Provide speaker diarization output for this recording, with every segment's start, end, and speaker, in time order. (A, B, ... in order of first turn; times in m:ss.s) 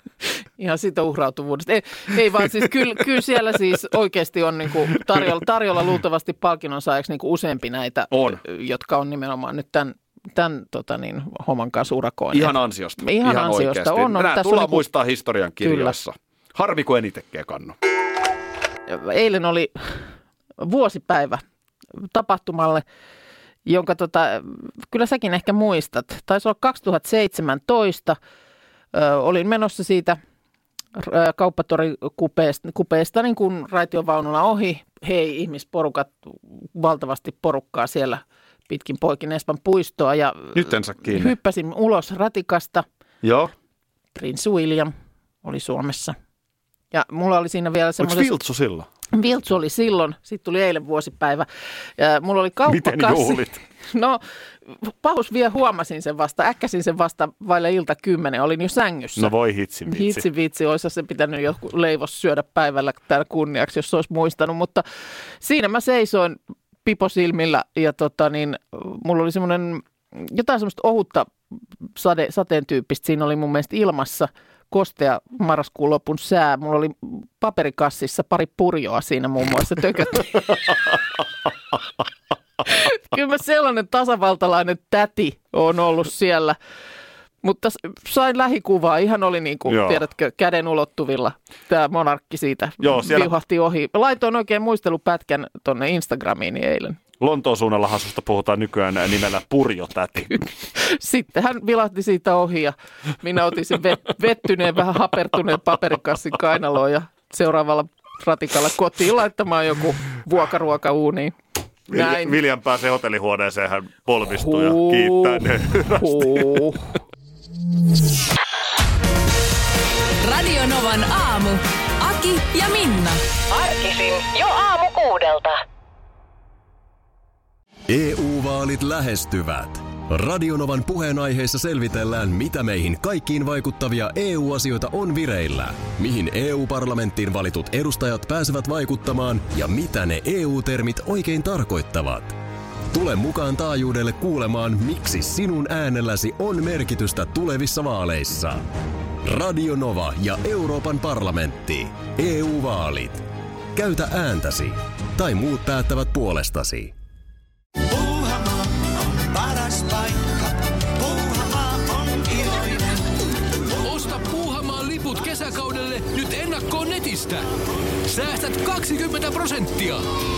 0:00.6-0:14.8 A
0:08.1-0:08.4 B
0:12.3-0:17.7 B
0:15.6-0:16.0 A
0:18.9-0:21.4 A
0:22.0-0:22.8 A
0:23.6-0:28.2 A
0:28.9-0:30.2 A
0:31.0-0:42.8 A
0:40.5-0:41.3 B
0:43.2-0:43.5 B
0:44.2-0:46.2 A
0:46.9-0:48.3 A
0:48.0-0:48.9 B
0:49.1-0:59.3 A
0:52.7-0:53.6 B
0:59.2-1:00.2 B
0:59.9-1:04.8 A
1:05.4-1:11.3 A
1:12.0-1:20.7 A
1:22.6-1:26.6 A
1:27.4-1:37.0 A
1:29.7-1:30.0 B
1:32.8-1:33.3 B
1:37.2-1:40.5 B
1:40.8-1:51.3 A
1:51.9-1:56.7 B
1:51.9-1:52.4 A
1:54.3-1:57.0 A
2:00.2-2:03.2 C
2:07.9-2:22.4 D
2:22.9-2:28.6 D
2:29.2-2:36.9 D
2:37.8-2:43.3 E
2:43.7-2:47.5 F
2:48.0-2:50.0 F